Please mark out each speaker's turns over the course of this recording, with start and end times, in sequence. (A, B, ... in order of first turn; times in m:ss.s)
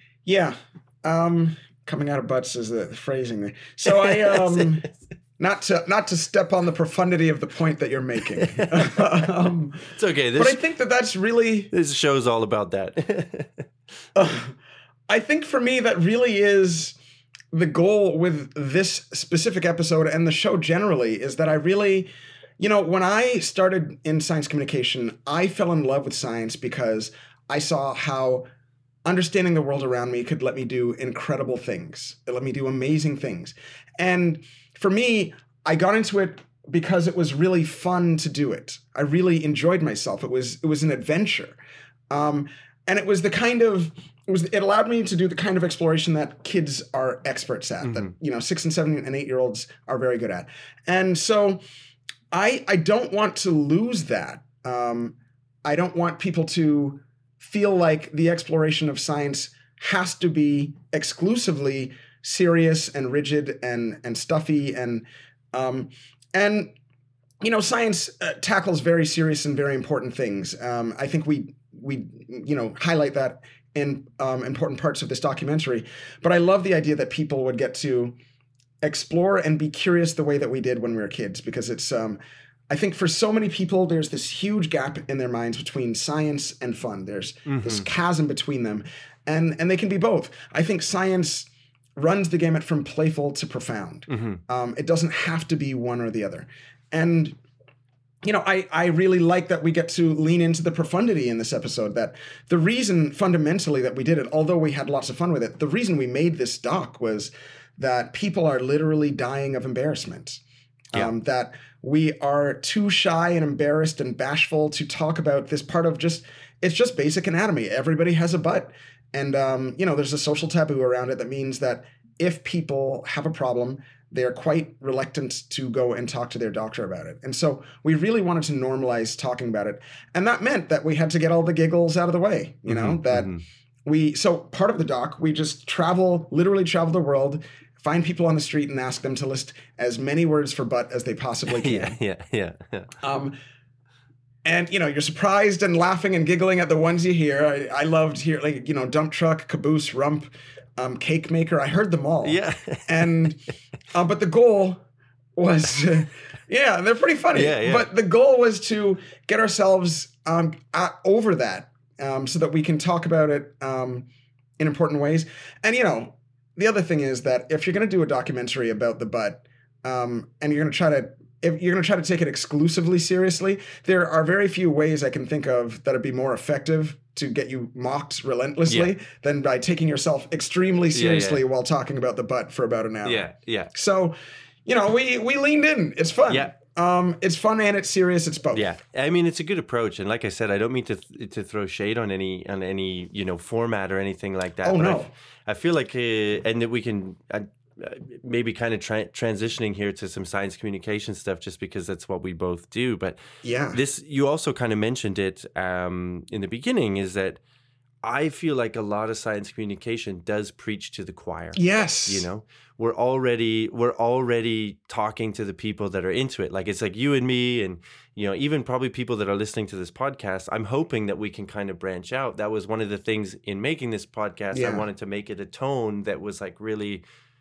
0:00.2-0:04.8 A
0:04.0-0:04.8 B
0:05.4-0:11.7 A
0:08.4-0:09.0 B
0:09.9-0:10.6 B
0:11.7-0:13.6 B
0:14.1-0:14.5 A
0:15.1-0:17.0 A
0:17.5-0:28.4 A
0:29.0-0:41.6 A
0:42.1-0:51.6 A
0:47.8-0:48.1 B
0:52.3-1:06.7 A
1:07.4-1:18.2 A
1:18.8-1:22.2 A
1:22.7-1:37.4 A
1:27.4-1:27.8 B
1:34.1-1:34.4 B
1:38.2-1:50.4 A
1:50.9-2:13.3 A
2:12.7-2:13.4 B
2:13.8-2:22.0 A
2:21.5-2:22.9 B
2:23.0-2:23.4 A
2:24.4-2:33.4 A
2:32.2-2:33.2 B
2:33.9-2:34.8 A
2:35.4-2:44.1 A
2:37.3-2:37.9 B
2:44.6-3:08.7 A
3:00.9-3:01.4 B
3:03.0-3:03.7 B
3:08.5-3:23.2 B
3:14.6-3:15.1 A
3:23.4-3:23.8 A
3:23.7-3:27.4 B
3:28.0-3:47.0 B
3:31.5-3:32.2 A
3:44.5-3:44.8 A